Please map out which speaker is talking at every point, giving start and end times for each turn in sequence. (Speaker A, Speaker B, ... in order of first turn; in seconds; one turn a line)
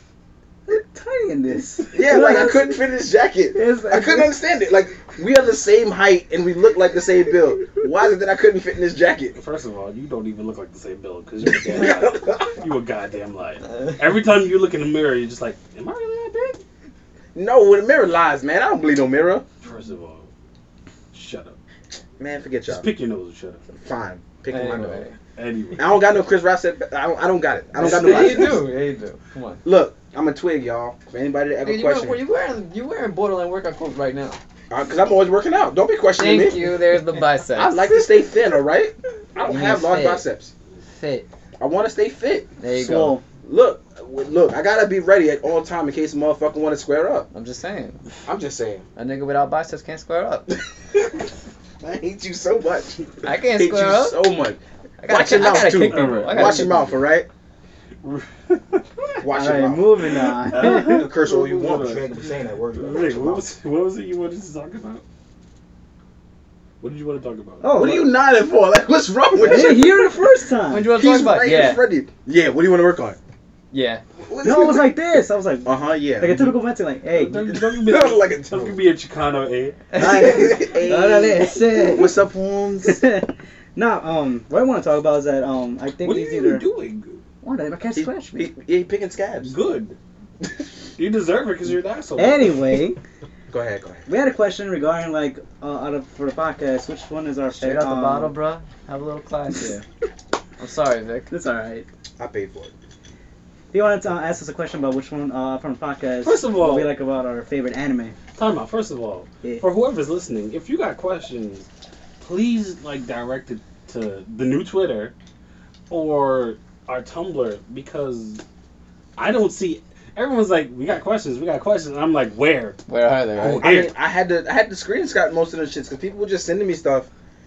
Speaker A: 0.7-2.8
Speaker B: 1.9-9.4
Speaker A: 3.5-4.3
Speaker C: 9.3-16.6
Speaker B: 11.7-12.5
Speaker B: 17.4-19.4
Speaker C: 19.6-20.3
Speaker C: 21.1-21.6
Speaker B: 22.2-22.9
Speaker C: 22.7-23.6
Speaker B: 23.8-25.1
Speaker D: 24.5-25.2
Speaker C: 25.4-26.0
Speaker B: 25.8-28.7
Speaker D: 27.8-29.6
Speaker A: 28.2-28.4
Speaker B: 29.6-32.2
Speaker D: 31.6-34.4
Speaker B: 34.7-36.7
Speaker D: 36.2-38.0
Speaker B: 37.5-40.5
Speaker D: 39.4-40.3
Speaker D: 40.9-41.3
Speaker B: 41.6-47.3
Speaker D: 42.6-43.2
Speaker A: 42.8-43.2
Speaker D: 47.3-48.0
Speaker B: 48.3-48.8
Speaker D: 49.0-50.6
Speaker B: 51.8-57.3
Speaker D: 53.2-54.2
Speaker D: 55.0-57.0
Speaker C: 55.7-56.9
Speaker C: 58.0-59.2
Speaker B: 59.2-63.5
Speaker A: 59.3-61.1
Speaker C: 60.5-65.0
Speaker C: 66.8-67.8
Speaker A: 67.6-68.2
Speaker B: 67.7-70.2
Speaker A: 69.4-70.9
Speaker D: 70.7-71.8
Speaker B: 70.9-73.2
Speaker D: 73.7-74.0
Speaker B: 74.3-75.0
Speaker A: 74.4-77.5
Speaker B: 75.6-76.5
Speaker C: 77.1-79.8
Speaker B: 77.4-78.8
Speaker A: 80.0-82.2
Speaker B: 80.0-83.0
Speaker D: 80.0-80.4
Speaker A: 82.8-86.7
Speaker C: 86.0-87.2
Speaker A: 87.4-88.5
Speaker B: 88.0-89.5
Speaker C: 89.4-90.0
Speaker C: 91.0-92.6
Speaker A: 92.2-93.0
Speaker B: 93.5-94.1
Speaker A: 94.1-98.3
Speaker D: 97.5-99.8
Speaker D: 100.6-101.3
Speaker A: 101.3-101.8
Speaker B: 102.2-102.7
Speaker A: 103.7-108.2
Speaker C: 106.2-106.9
Speaker C: 108.4-111.7
Speaker C: 112.2-115.1
Speaker C: 115.9-118.4
Speaker C: 119.2-122.8
Speaker D: 122.9-123.8
Speaker C: 123.4-123.9
Speaker B: 123.4-127.1